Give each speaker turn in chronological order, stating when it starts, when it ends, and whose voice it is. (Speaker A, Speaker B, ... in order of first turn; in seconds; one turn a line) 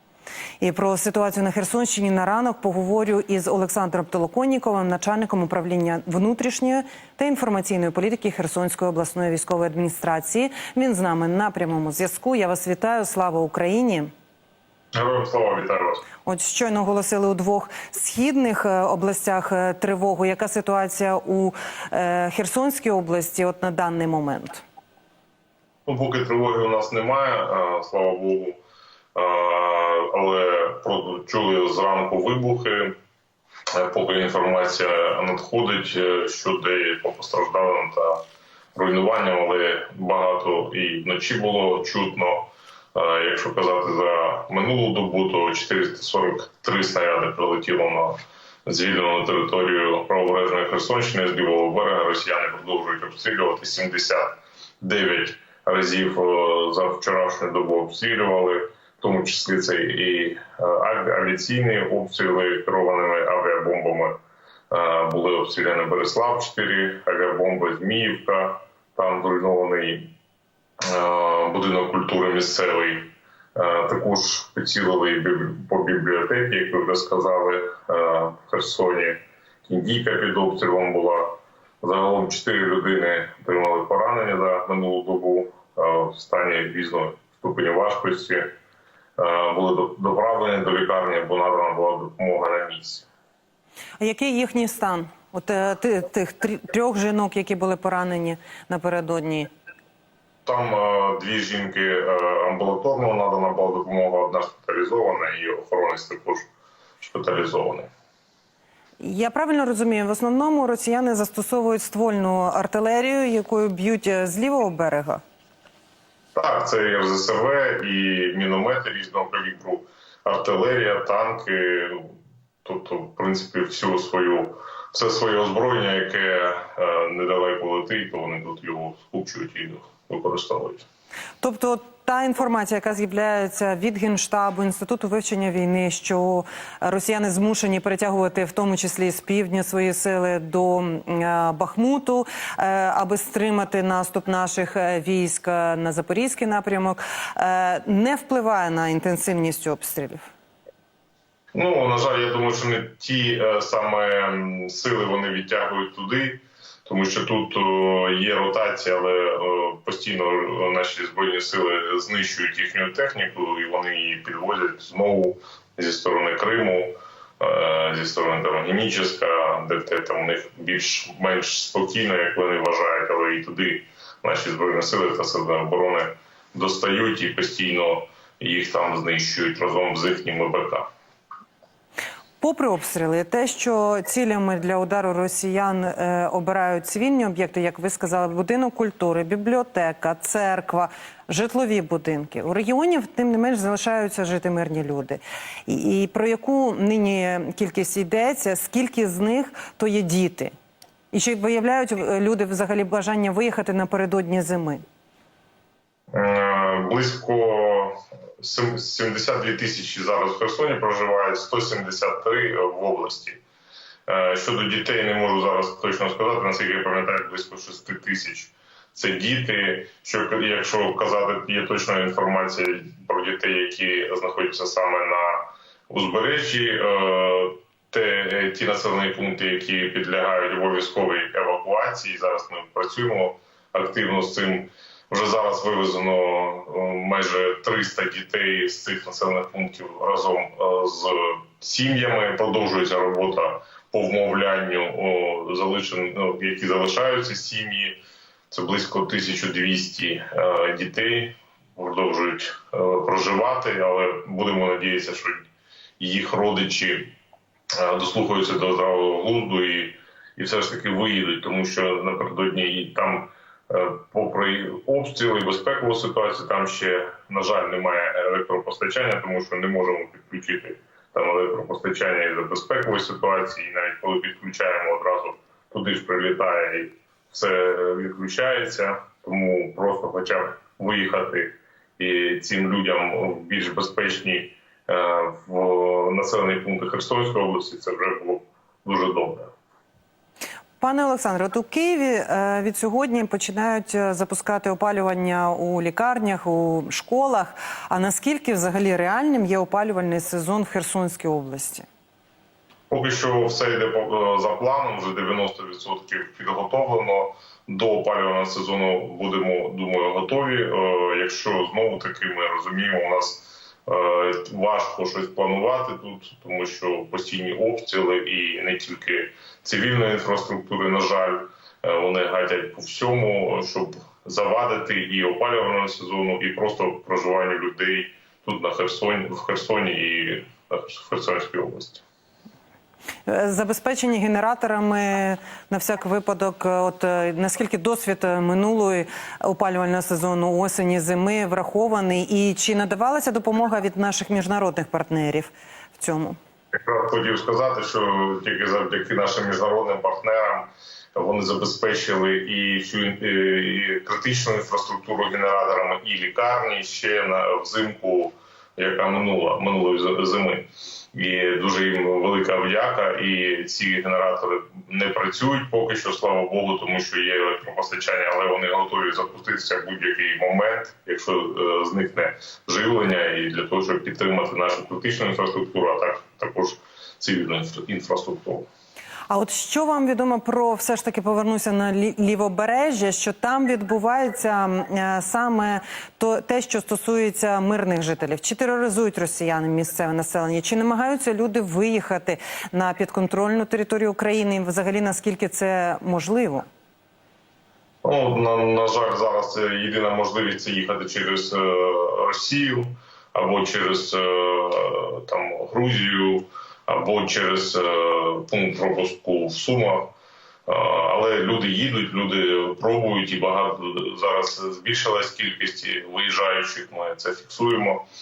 Speaker A: 0.6-14.1
Speaker B: 14.9-16.0
Speaker A: 16.2-24.6
Speaker B: 25.9-28.6
Speaker B: 29.1-33.0
Speaker B: 33.7-64.2
Speaker B: 64.7-70.2
Speaker B: 70.8-88.5
Speaker B: 89.2-93.1
Speaker A: 94.0-99.5
Speaker B: 100.5-106.5
Speaker B: 107.0-107.9
Speaker A: 109.0-115.2
Speaker B: 116.4-130.8
Speaker A: 131.4-150.3
Speaker B: 151.6-180.9
Speaker A: 182.4-200.5
Speaker A: 201.1-204.8
Speaker B: 206.1-213.4
Speaker B: 214.1-248.0
Speaker B: 248.5-255.5
Speaker B: 256.0-257.1
Speaker B: 257.8-289.5
Speaker A: 290.8-301.9
Speaker B: 302.9-332.0
Speaker A: 333.3-346.4
Speaker B: 346.8-378.7
Speaker A: 379.3-396.7
Speaker B: 398.0-410.1
Speaker B: 410.7-418.0